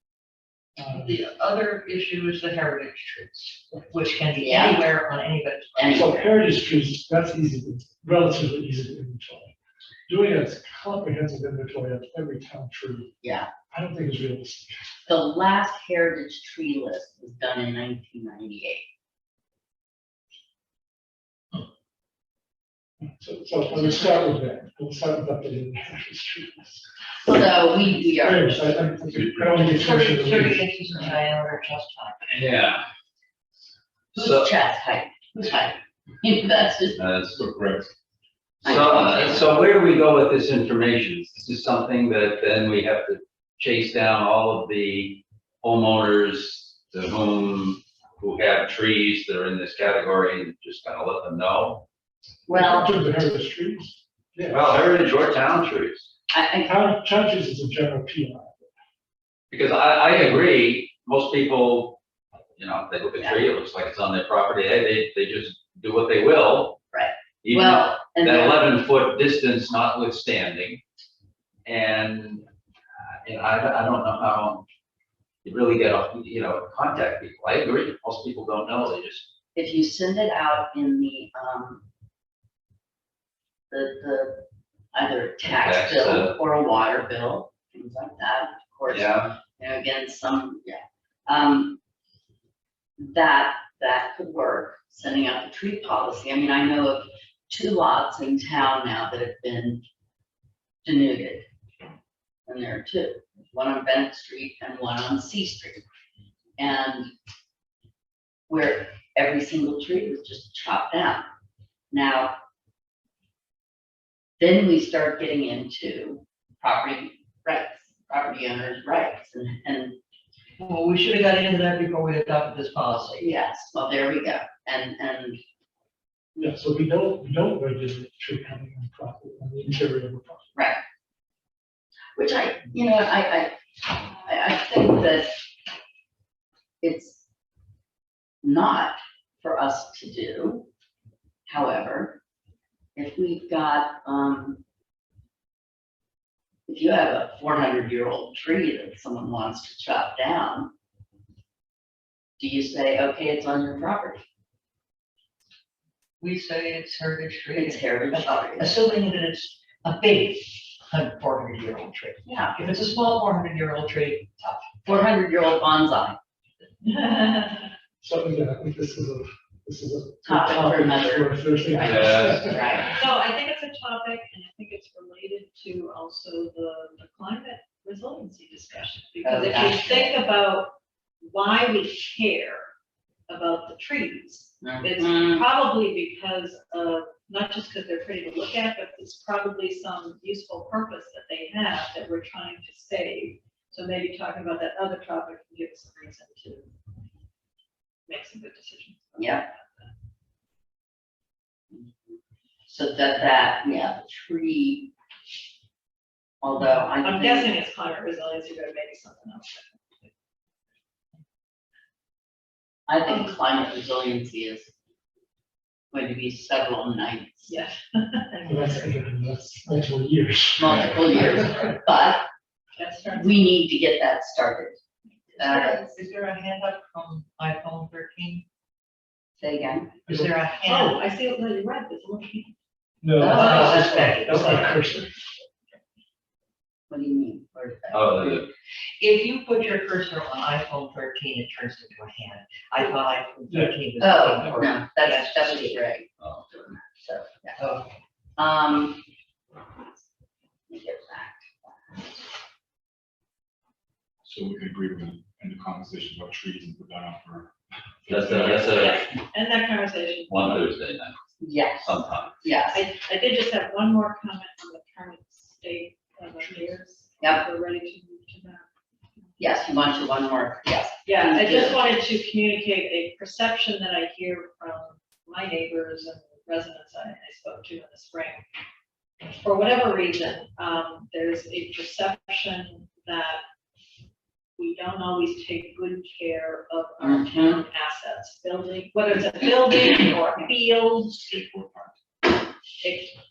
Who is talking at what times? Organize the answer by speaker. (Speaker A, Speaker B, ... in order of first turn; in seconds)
Speaker A: 0.8-1.1, 5.9-9.5, 10.1-13.1, 13.7-14.8, 23.0-26.9, 28.2-30.6, 52.5-54.8, 56.6-58.7, 126.4-130.5, 168.0-172.7, 218.4-221.4, 230.1-230.3, 233.0-235.1, 243.5-243.8
Speaker B: 0.8-6.2, 29.7-32.4, 120.6-123.2, 156.2-164.7, 225.4-228.4, 230.1-231.0, 233.3-234.8, 239.0-245.8, 247.6-247.9
Speaker C: 4.4-4.8, 5.8-6.2, 13.2-13.5, 15.1-18.8, 27.2-28.8, 34.1-37.0, 38.6-39.6, 52.5-52.9, 56.3-56.8, 66.9-68.7, 79.5-81.8, 83.7-91.8, 93.0-99.8, 100.8-101.5, 102.5-105.8, 106.6-107.1, 108.5-111.3, 111.9-112.4, 114.4-120.0, 123.2-125.4, 130.5-130.8, 132.2-135.4, 136.8-137.2, 138.4-140.7, 141.5-142.2, 142.9-144.6, 146.7-150.7, 152.4-154.2, 157.5-158.7, 162.2-162.6, 164.8-166.2, 170.2-173.0, 179.2-180.1, 184.6-185.4, 199.2-199.4, 202.6-204.9, 206.4-207.5, 212.9-214.7, 215.9-217.6, 220.6-222.3, 223.1-224.8, 225.4-226.0, 229.4-230.0, 233.2-234.5, 236.9-238.4, 244.0-247.6, 248.4-249.0, 250.7-252.2, 261.4-262.8, 267.2-267.4, 269.4-271.8, 287.0-287.6
Speaker D: 29.1-29.7, 32.3-32.9, 34.1-34.5, 36.9-37.5, 38.6-51.8, 54.5-56.1, 59.5-62.0, 62.6-66.8, 67.4-70.8, 71.6-72.5, 73.2-74.6, 75.4-79.2, 85.4-86.3, 88.9-89.3, 171.8-172.7, 237.9-238.4, 258.1-259.1, 260.3-261.1, 261.8-262.4
Speaker E: 37.3-37.9, 254.2-257.5, 258.0-258.6, 291.1-291.9
Speaker F: 166.8-167.7, 173.0-182.7, 183.3-196.7, 198.1-199.9, 207.0-210.1, 217.5-218.7, 222.8-223.4, 230.6-232.5, 258.1-260.6, 262.7-268.6, 271.1-278.4, 279.2-283.4, 284.6-291.3, 292.8-293.1